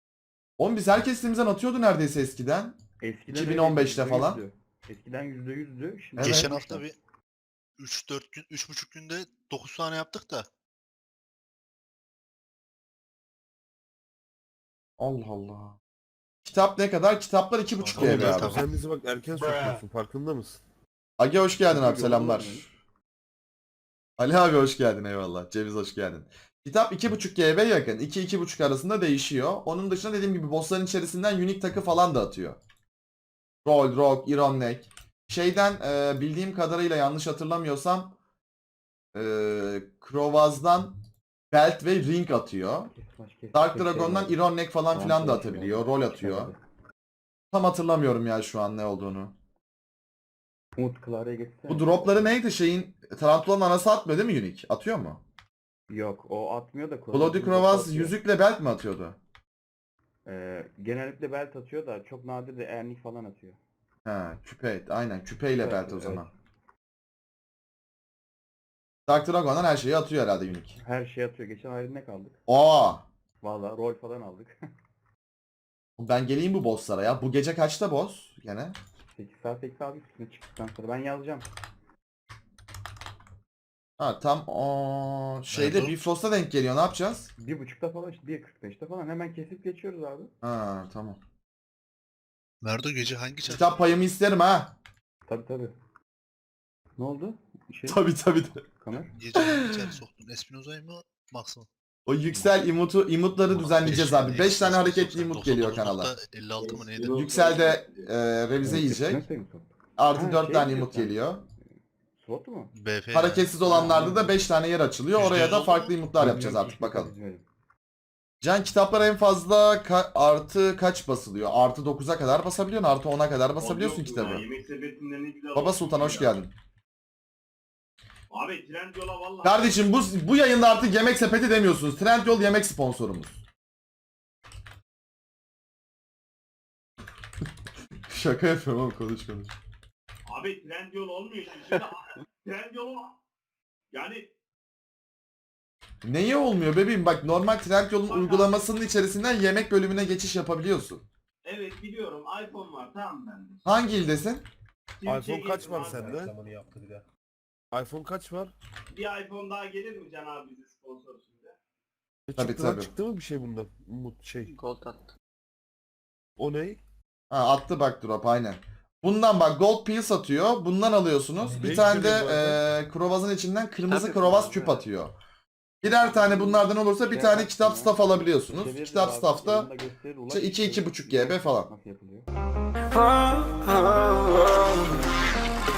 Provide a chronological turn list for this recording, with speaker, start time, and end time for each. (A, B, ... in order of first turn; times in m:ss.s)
0:00.6-0:02.8 A
0:03.0-0:06.8 B
0:03.3-0:04.4 A
0:06.2-0:07.0 C
0:06.2-0:06.5 A
0:07.8-0:10.5 C
0:15.0-0:15.8 A
0:16.4-0:18.6 A
0:17.8-0:18.8 C
0:18.0-0:20.6 D
0:21.2-0:22.7 A
0:21.7-0:22.7 B
0:24.2-0:32.6 A
0:33.6-0:38.2 A
0:39.1-0:40.9 A
0:41.5-0:42.9 A
0:42.9-0:44.4 B
0:43.5-0:46.5 A
0:44.9-0:46.6 B
0:47.5-0:49.3 A
0:50.8-0:52.3 B
0:51.7-0:55.2 A
0:55.9-0:58.2 B
0:57.1-0:59.2 A
1:00.3-1:03.6 B
1:04.0-1:06.3 A
1:05.6-1:06.3 B
1:09.1-1:10.8 A
1:10.8-1:12.4 B
1:12.5-1:13.0 A
1:13.4-1:14.6 B
1:16.0-1:18.8 A
1:19.1-1:21.5 B
1:24.0-1:27.3 A
1:25.5-1:26.0 C
1:27.4-1:30.3 B
1:30.4-1:31.2 A
1:32.6-1:33.7 C
1:33.5-1:34.8 A
1:35.3-1:35.7 B
1:37.0-1:38.0 B
1:37.9-1:38.6 A
1:38.8-1:39.1 B
1:39.1-1:41.7 C
1:39.4-1:39.9 A
1:42.1-1:46.1 A
1:43.5-1:47.3 C
1:46.6-1:47.8 E
1:47.1-1:49.2 A
1:48.6-1:51.2 B
1:50.0-1:51.4 A
1:52.2-1:52.7 B
1:52.7-1:53.5 C
1:53.1-1:57.1 A
1:53.6-1:54.5 B
1:55.1-1:55.9 C
1:56.2-1:57.4 B
1:58.4-2:04.4 A
2:03.6-2:06.4 E
2:05.5-2:06.5 A
2:08.3-2:09.7 E
2:09.4-2:13.4 A
2:18.1-2:19.5 A
2:20.3-2:23.2 E
2:23.9-2:24.3 E
2:26.0-2:31.0 A
2:28.0-2:28.7 E
2:31.4-2:33.8 E
2:33.7-2:34.4 A
2:35.0-2:36.2 E
2:35.0-2:37.0 D
2:37.7-2:38.5 D
2:38.9-2:41.6 E
2:42.3-2:44.6 D
2:42.4-2:42.9 A
2:44.5-2:45.1 F
2:46.4-2:46.8 D
2:47.3-2:55.2 A
2:51.5-2:52.6 D
2:53.9-2:54.8 F
2:55.8-2:59.7 A
2:55.8-3:02.3 B
3:00.3-3:01.7 A
3:02.9-3:05.1 F